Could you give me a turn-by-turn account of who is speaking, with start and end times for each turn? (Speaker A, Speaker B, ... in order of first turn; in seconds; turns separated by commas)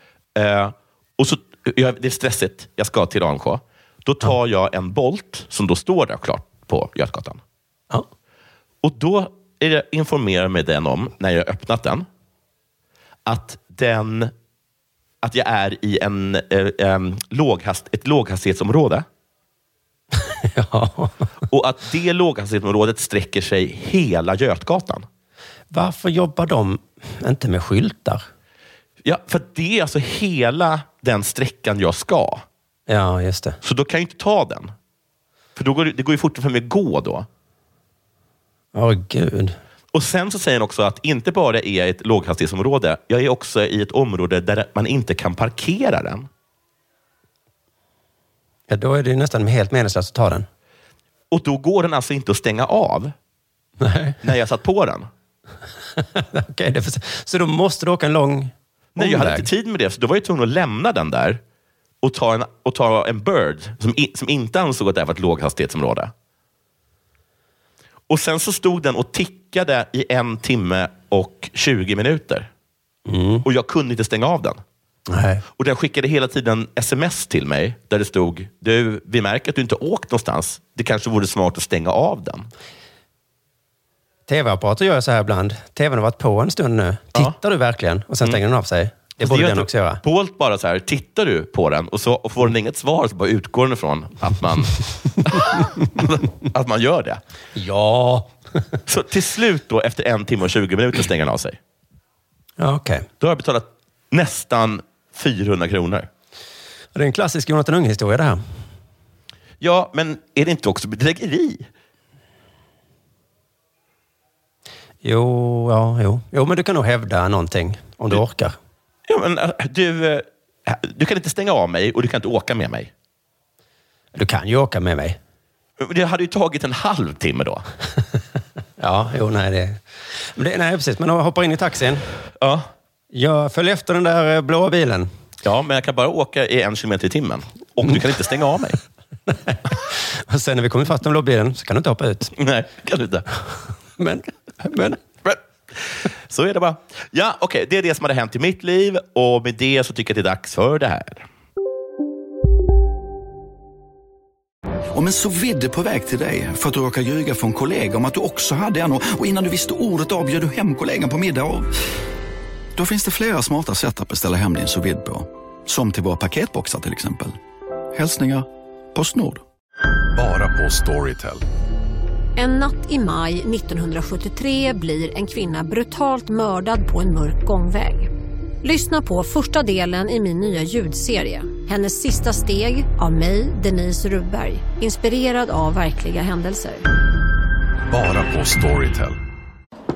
Speaker A: 0.3-7.4, Speaker A: 8.8-12.1, Speaker A: 13.3-14.3, Speaker A: 15.2-19.1, Speaker B: 20.3-21.2, Speaker A: 21.5-25.1, Speaker B: 25.7-28.2, Speaker A: 29.0-32.5, Speaker B: 32.9-33.6, Speaker A: 33.6-34.7, Speaker A: 35.6-37.3, Speaker B: 38.7-39.6, Speaker A: 39.9-46.3, Speaker B: 48.7-50.5, Speaker A: 51.3-53.1, Speaker B: 53.8-54.2, Speaker A: 54.2-55.1, Speaker B: 56.0-59.5, Speaker A: 59.0-61.4, Speaker A: 62.0-66.1, Speaker A: 68.1-72.5, Speaker B: 73.1-73.5, Speaker A: 73.5-74.6, Speaker B: 75.1-75.4, Speaker A: 75.6-82.5, Speaker B: 84.3-90.0, Speaker A: 89.2-97.2, Speaker B: 97.5-98.3, Speaker A: 98.9-101.6, Speaker B: 102.6-103.1, Speaker A: 103.2-106.1, Speaker B: 107.0-108.4, Speaker A: 109.6-111.7, Speaker B: 115.0-118.6, Speaker A: 119.1-122.9, Speaker B: 124.1-125.2, Speaker A: 125.8-127.7, Speaker B: 128.8-129.8, Speaker B: 130.4-132.1, Speaker A: 132.4-132.7, Speaker B: 133.1-135.1, Speaker A: 135.4-138.8, Speaker B: 139.3-142.3, Speaker A: 142.3-143.3, Speaker B: 144.0-145.0, Speaker A: 145.2-151.3, Speaker C: 154.9-161.7, Speaker C: 162.8-167.4, Speaker C: 167.9-169.4, Speaker D: 170.2-171.4, Speaker E: 172.4-178.1, Speaker E: 178.6-186.8, Speaker D: 187.9-189.2